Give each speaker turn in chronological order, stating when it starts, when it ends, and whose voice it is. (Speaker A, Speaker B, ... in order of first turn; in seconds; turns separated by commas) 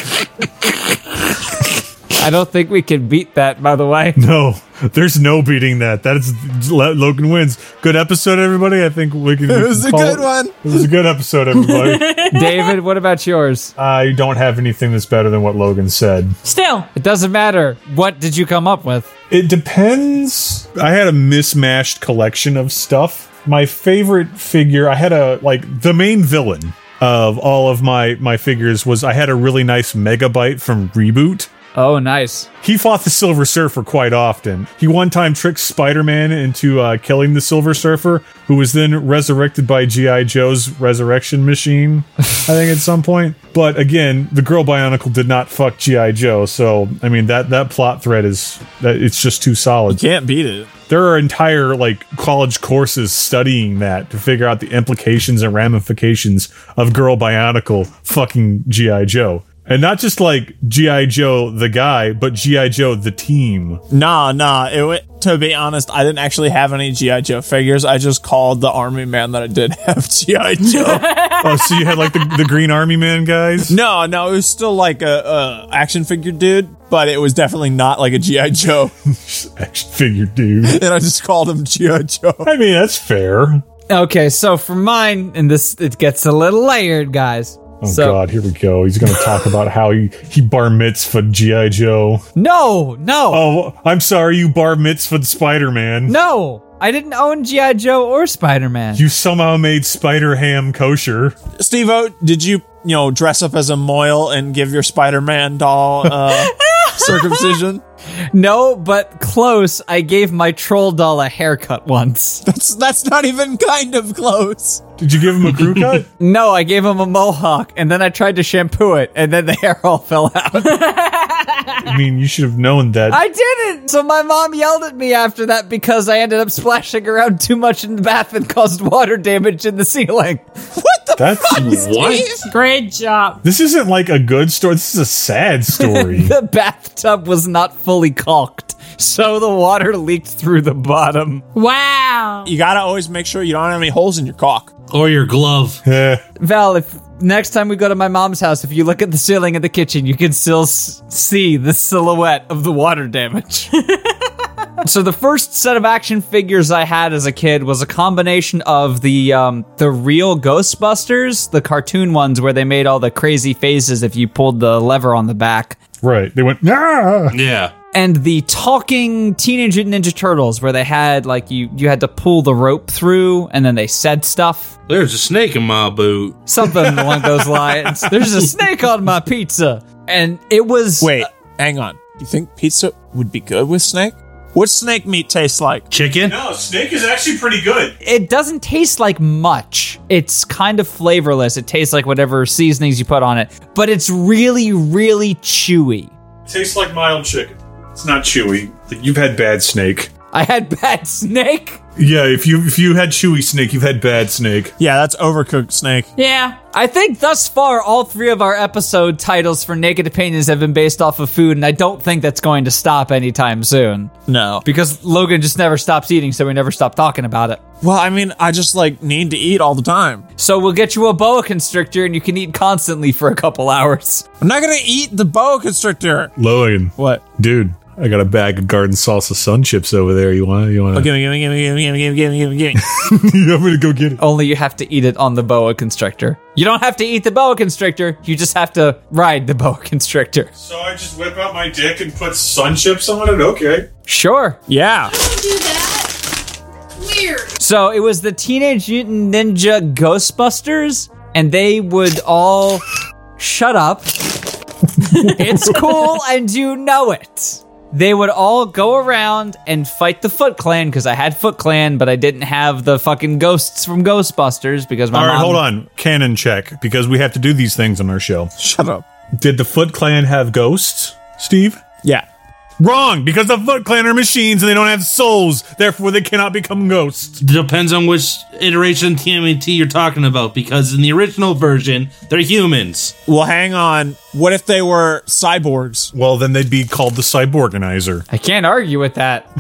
Speaker A: 2.2-4.2, Speaker B: 4.2-12.3, Speaker C: 9.5-10.9, Speaker D: 11.6-12.8, Speaker A: 12.3-13.7, Speaker B: 13.8-16.4, Speaker D: 16.4-16.9, Speaker A: 16.9-19.1, Speaker B: 19.3-31.5, Speaker A: 31.8-32.5, Speaker B: 32.6-50.0, Speaker C: 49.9-50.7, Speaker B: 50.9-63.8, Speaker C: 63.9-71.2, Speaker D: 70.6-72.1, Speaker B: 71.4-73.8, Speaker C: 73.7-78.9, Speaker B: 79.1-80.8, Speaker C: 80.6-82.5, Speaker B: 82.4-83.6, Speaker A: 83.9-88.2, Speaker B: 87.8-92.2, Speaker A: 92.4-93.5, Speaker B: 93.3-96.2, Speaker A: 96.1-99.0, Speaker B: 98.9-101.4, Speaker C: 101.6-107.8, Speaker D: 106.6-107.6, Speaker A: 108.3-112.4, Speaker C: 112.5-114.8, Speaker B: 115.0-116.1, Speaker A: 116.2-121.0, Speaker D: 120.6-121.8, Speaker B: 121.8-123.2, Speaker A: 123.1-130.4, Speaker C: 130.8-132.5, Speaker B: 131.2-131.9, Speaker E: 131.5-132.3, Speaker D: 132.3-133.4, Speaker B: 133.4-136.3, Speaker A: 135.8-141.4, Speaker D: 141.6-142.5, Speaker C: 142.5-144.7, Speaker E: 144.9-145.8, Speaker B: 145.8-146.2, Speaker A: 146.4-153.7, Speaker A: 154.8-165.8, Speaker B: 166.0-167.3, Speaker E: 167.3-167.7, Speaker A: 167.9-174.7, Speaker E: 174.9-177.0, Speaker A: 176.5-181.3, Speaker C: 181.0-185.9, Speaker E: 185.9-186.3, Speaker B: 186.2-187.9, Speaker A: 188.0-196.1, Speaker B: 196.5-200.1, Speaker A: 200.3-201.8, Speaker B: 202.0-204.7, Speaker C: 204.8-206.1, Speaker D: 206.2-206.6, Speaker A: 206.7-217.6, Speaker C: 214.3-214.6, Speaker C: 217.8-220.2, Speaker A: 220.4-224.3, Speaker C: 224.4-226.3, Speaker B: 226.4-231.1, Speaker C: 230.9-232.9, Speaker B: 232.8-234.2, Speaker A: 234.2-240.5, Speaker B: 240.6-243.9, Speaker A: 244.1-244.6, Speaker C: 244.7-245.1, Speaker D: 245.1-246.3, Speaker D: 247.0-247.6, Speaker A: 247.6-252.8, Speaker A: 253.4-254.2, Speaker B: 255.1-255.7, Speaker A: 255.2-265.6, Speaker B: 265.1-268.5, Speaker C: 268.6-269.1, Speaker B: 269.4-271.8, Speaker B: 272.8-277.4, Speaker E: 277.4-283.1, Speaker C: 283.3-286.1, Speaker B: 286.1-288.2, Speaker A: 288.3-289.5